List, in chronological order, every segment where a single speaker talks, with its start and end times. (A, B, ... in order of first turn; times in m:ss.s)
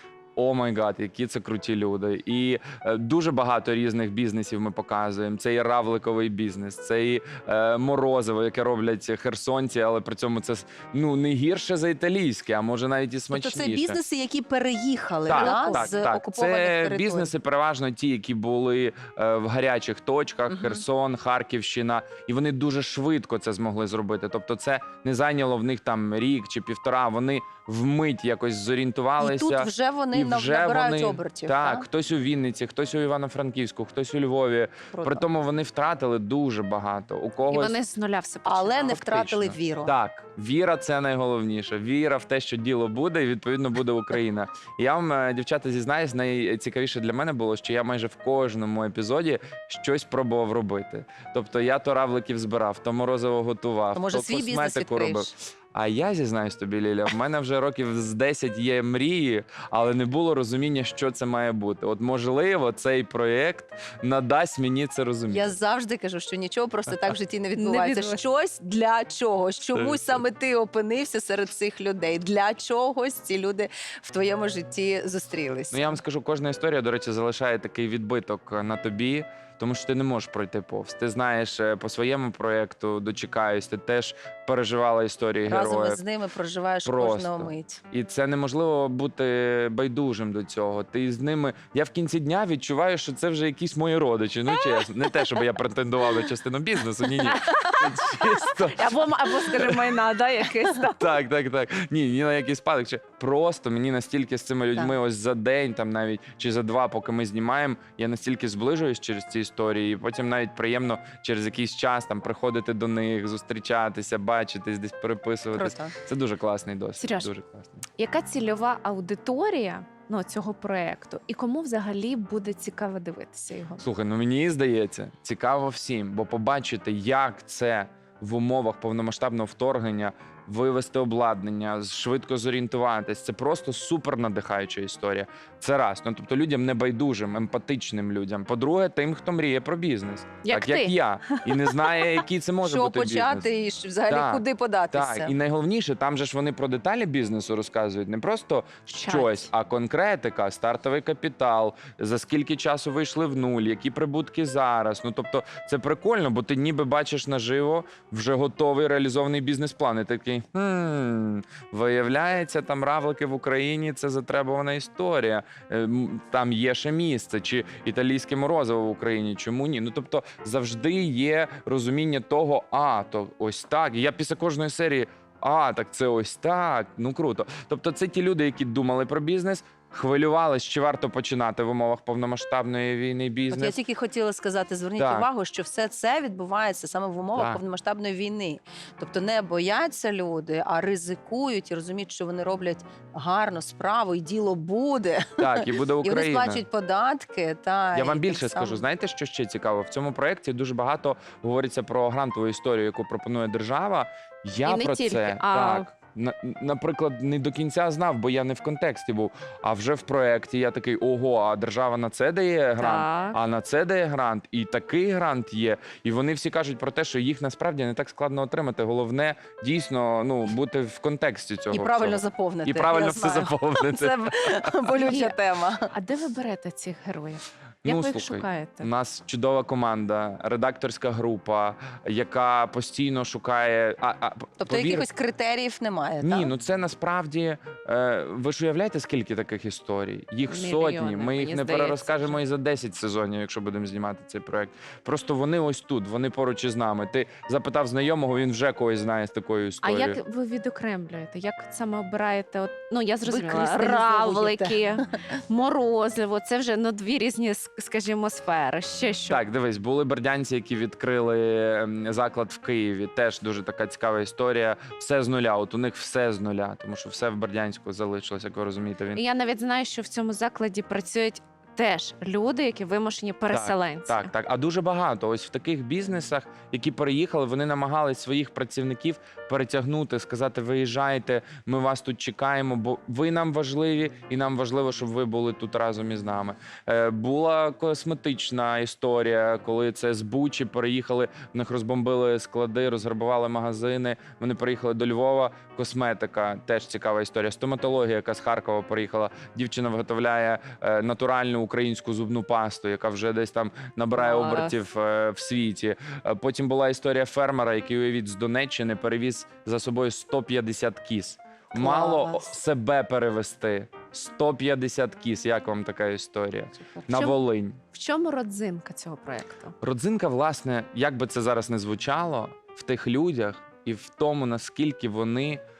0:00.4-0:14.0 A
0:13.4-0:17.3 B
0:15.3-0:37.8 A
0:15.3-0:16.0 C
0:20.5-0:20.8 B
0:29.2-0:31.9 B
0:34.9-0:35.2 B
0:37.5-0:39.1 C
0:38.4-0:40.0 B
0:38.9-1:05.6 A
0:53.9-0:55.3 B
1:05.3-1:16.0 B
1:07.6-1:08.2 C
1:09.7-1:10.2 A
1:15.7-1:26.0 A
1:25.5-1:27.8 B
1:26.8-1:39.9 A
1:37.3-1:41.0 C
1:41.0-1:57.8 A
1:55.5-1:56.0 B
1:57.0-1:57.3 C
1:58.0-2:03.8 C
2:03.8-2:23.5 A
2:20.4-2:21.5 C
2:22.6-2:25.4 B
2:24.1-3:03.8 A
2:28.9-2:29.5 C
3:03.5-3:18.8 B
3:05.0-3:05.3 A
3:07.3-3:07.6 A
3:15.4-3:16.6 A
3:17.9-3:44.7 A
3:24.6-3:25.9 C
3:32.8-3:33.4 C
3:41.7-3:45.9 B
3:45.0-3:45.4 C
3:45.9-3:48.9 C
3:47.8-3:55.1 A
3:54.6-3:56.5 B
3:56.2-4:10.2 A
4:00.5-4:02.4 C
4:09.8-4:19.4 C
4:13.2-4:15.0 B
4:19.3-4:29.2 A
4:29.1-4:34.3 C
4:33.5-5:17.8 A
5:04.2-5:04.8 C
5:11.8-5:12.5 C
5:17.1-5:17.4 C
5:17.9-5:19.7 C
5:19.8-5:25.6 A